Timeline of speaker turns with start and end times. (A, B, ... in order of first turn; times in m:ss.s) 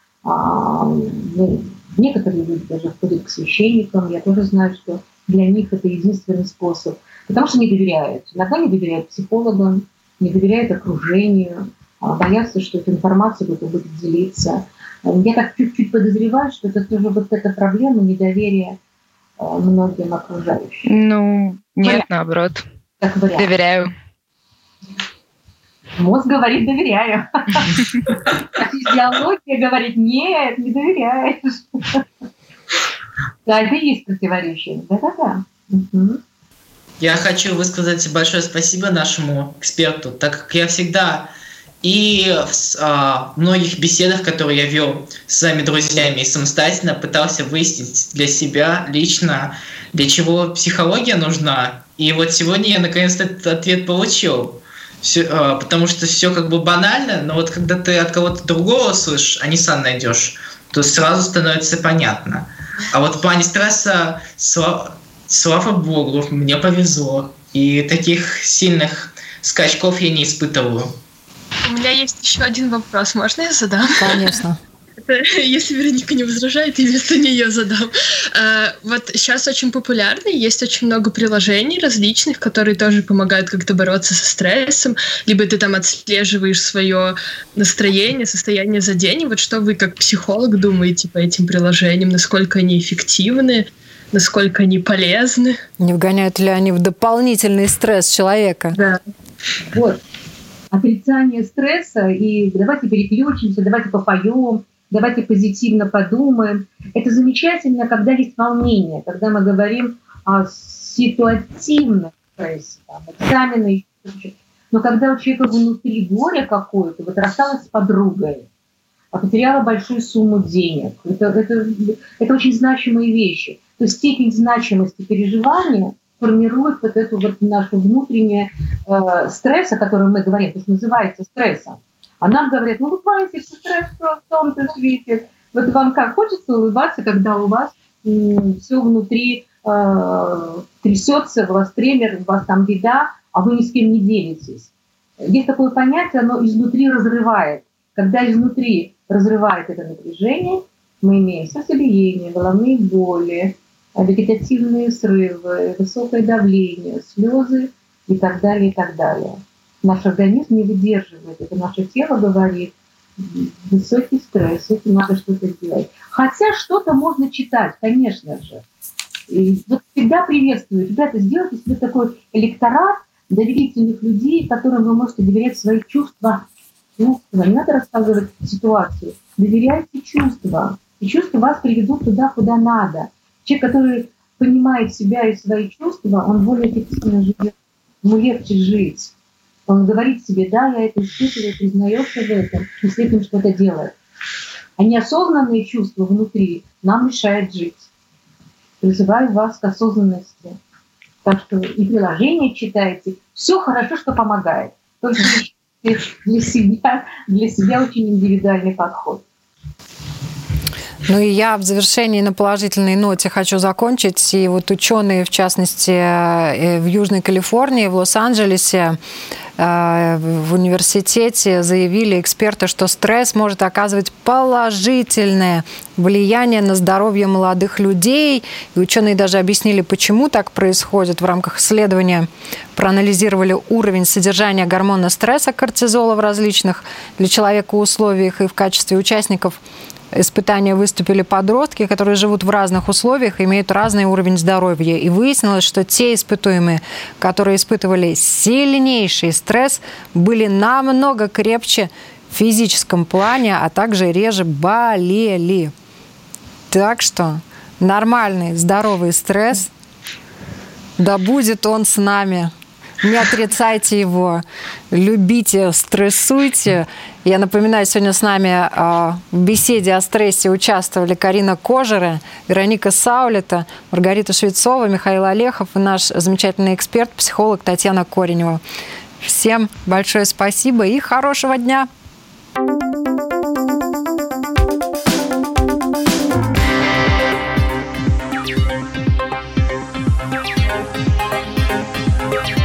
0:00.2-0:18.8 A
0:19.4-0:20.9 A
0:20.9-0:22.6 B
0:23.0-0:23.6 A
0:23.4-0:23.9 B
0:26.0-0:32.0 A
0:33.4-0:36.2 A
0:37.0-0:41.3 C
0:41.8-1:11.0 C
1:11.6-1:14.3 D
1:14.0-1:14.6 E
1:15.0-1:35.6 D
1:35.8-1:38.8 E
1:39.7-1:40.0 A
1:40.7-1:58.5 A
1:59.1-2:24.7 A
2:25.2-2:48.6 A
2:49.3-3:09.1 A
3:09.7-3:14.0 A
3:14.8-3:17.9 A
3:18.8-3:20.6 A
3:21.2-3:29.2 A
3:31.1-3:39.0 E
3:39.6-3:59.6 E
4:00.1-4:15.7 E
4:16.7-4:19.7 E
4:21.0-4:22.5 E
4:23.0-4:38.6 E
4:39.2-4:41.9 E